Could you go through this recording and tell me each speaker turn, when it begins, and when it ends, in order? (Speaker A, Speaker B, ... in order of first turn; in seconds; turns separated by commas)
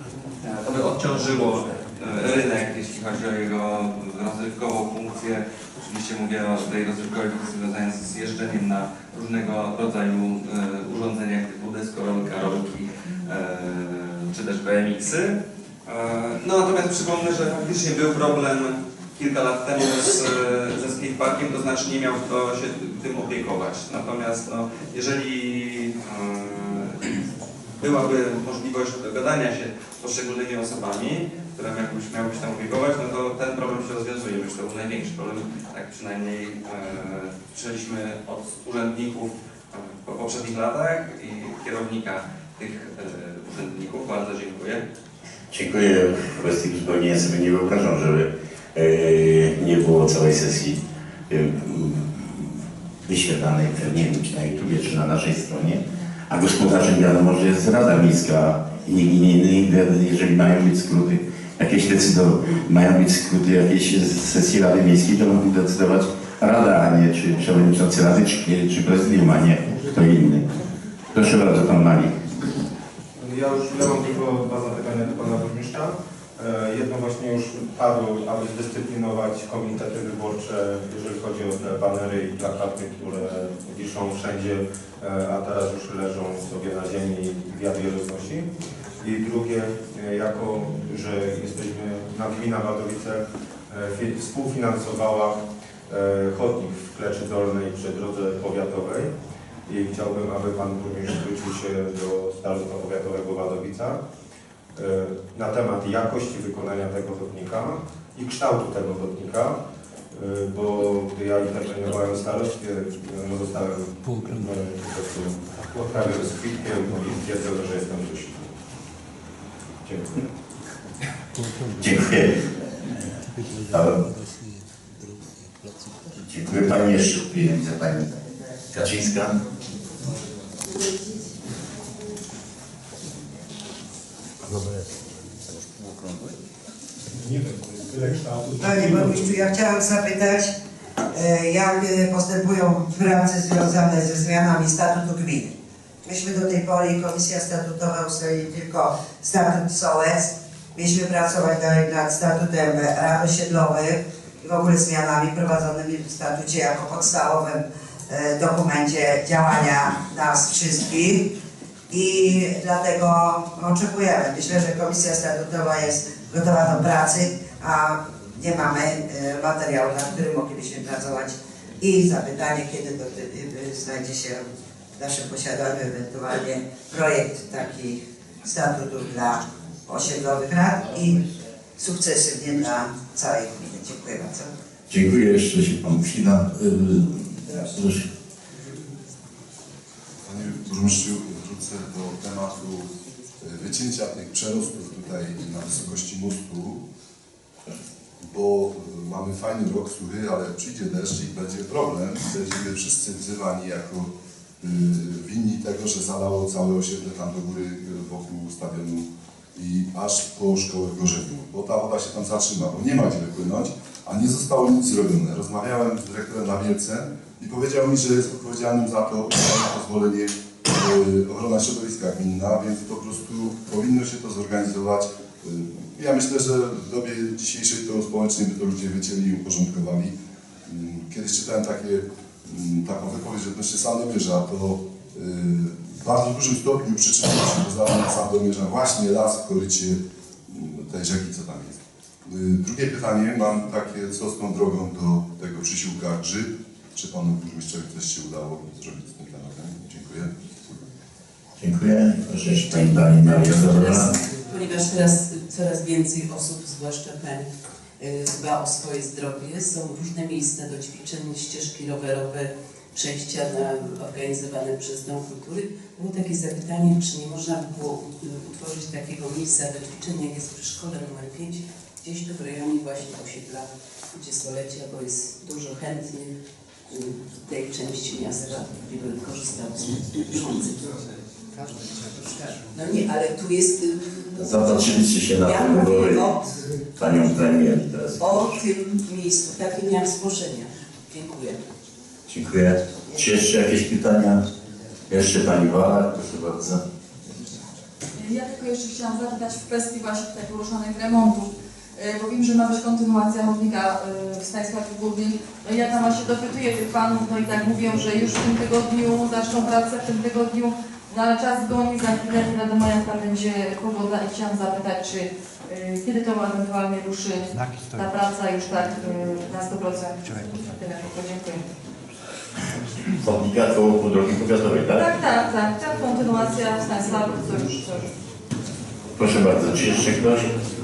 Speaker A: 0.4-27.2, Speaker A: 27.8-44.9, Speaker B: 45.5-70.5, Speaker B: 71.1-72.3, Speaker C: 73.2-99.1, Speaker C: 99.7-104.0, Speaker C: 104.8-118.5, Speaker C: 119.8-120.3, Speaker B: 121.8-123.1, Speaker B: 123.7-124.0, Speaker B: 126.2-129.4, Speaker B: 135.5-136.3, Speaker C: 137.2-139.3, Speaker D: 138.6-140.5, Speaker D: 141.1-145.5, Speaker D: 146.1-161.3, Speaker D: 161.9-181.2, Speaker D: 181.8-184.5, Speaker B: 184.9-188.1, Speaker E: 190.2-196.8, Speaker E: 198.2-230.1, Speaker E: 230.7-250.3, Speaker B: 251.6-254.2, Speaker F: 253.2-257.5, Speaker F: 258.0-276.3, Speaker F: 276.9-281.0, Speaker F: 281.6-286.7, Speaker B: 284.4-286.3, Speaker B: 287.0-288.6, Speaker F: 288.2-291.6, Speaker B: 292.3-294.4, Speaker B: 295.1-296.8, Speaker G: 298.1-321.7, Speaker B: 323.1-325.1, Speaker G: 324.9-328.1, Speaker B: 329.2-330.6